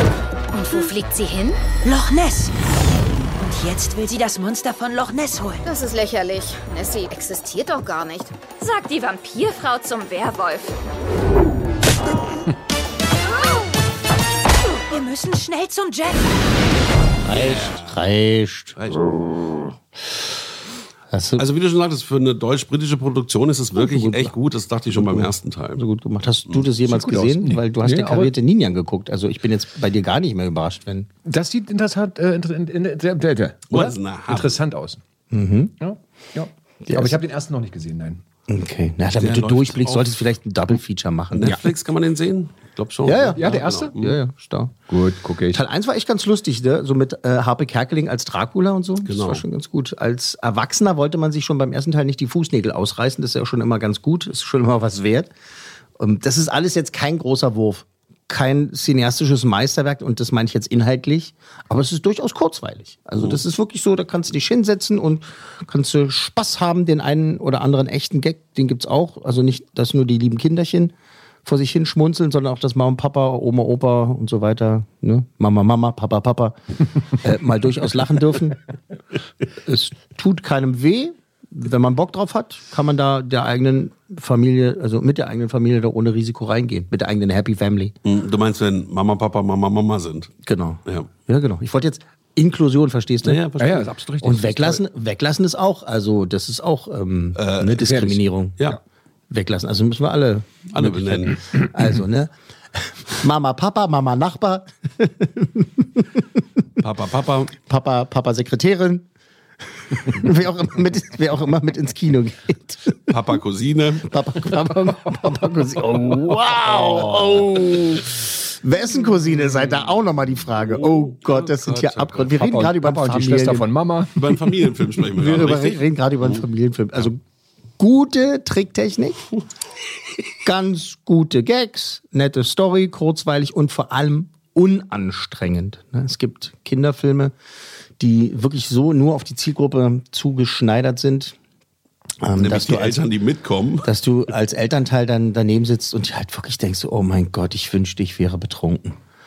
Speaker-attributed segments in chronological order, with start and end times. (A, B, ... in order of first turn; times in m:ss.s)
0:01.8-0:02.5 A
0:03.4-0:05.6 A
0:05.6-0:08.3 B
0:14.9-0:16.5 A
0:17.2-0:18.8 C
0:17.3-0:18.0 D
0:18.8-0:19.0 D
0:21.1-0:21.4 C
0:21.4-0:25.8 D
0:23.7-0:24.3 C
0:24.9-0:31.1 C
0:26.8-0:28.3 E
0:31.2-0:35.0 E
0:33.7-0:34.6 D
0:35.3-0:35.7 C
0:35.8-0:38.2 E
0:36.8-0:37.2 C
0:38.5-0:41.6 C
0:39.2-0:40.2 D
0:41.3-0:44.2 D
0:43.0-0:44.7 C
0:43.4-0:43.9 E
0:44.9-0:45.6 E
0:45.5-0:55.3 C
0:49.0-0:49.4 D
0:56.0-1:10.9 C
1:11.4-1:16.6 C
1:17.1-1:18.6 C
1:19.6-1:27.9 C
1:28.0-1:30.3 D
1:30.4-1:33.4 C
1:33.2-1:33.9 D
1:33.6-1:34.8 E
1:34.2-1:38.6 C
1:37.4-1:38.0 D
1:37.8-1:38.8 E
1:39.3-1:46.0 C
1:40.7-1:41.4 D
1:46.8-1:47.5 D
1:47.6-1:49.0 C
1:50.0-1:53.0 C
1:53.1-1:54.1 D
1:54.0-2:03.7 C
1:56.4-1:57.4 D
2:00.6-2:02.3 D
2:02.3-2:04.4 E
2:04.2-2:06.4 D
2:05.2-2:07.2 C
2:07.8-2:09.2 C
2:10.4-2:17.3 C
2:18.0-2:21.3 C
2:22.2-2:23.0 C
2:22.4-2:23.9 D
2:23.8-2:29.0 C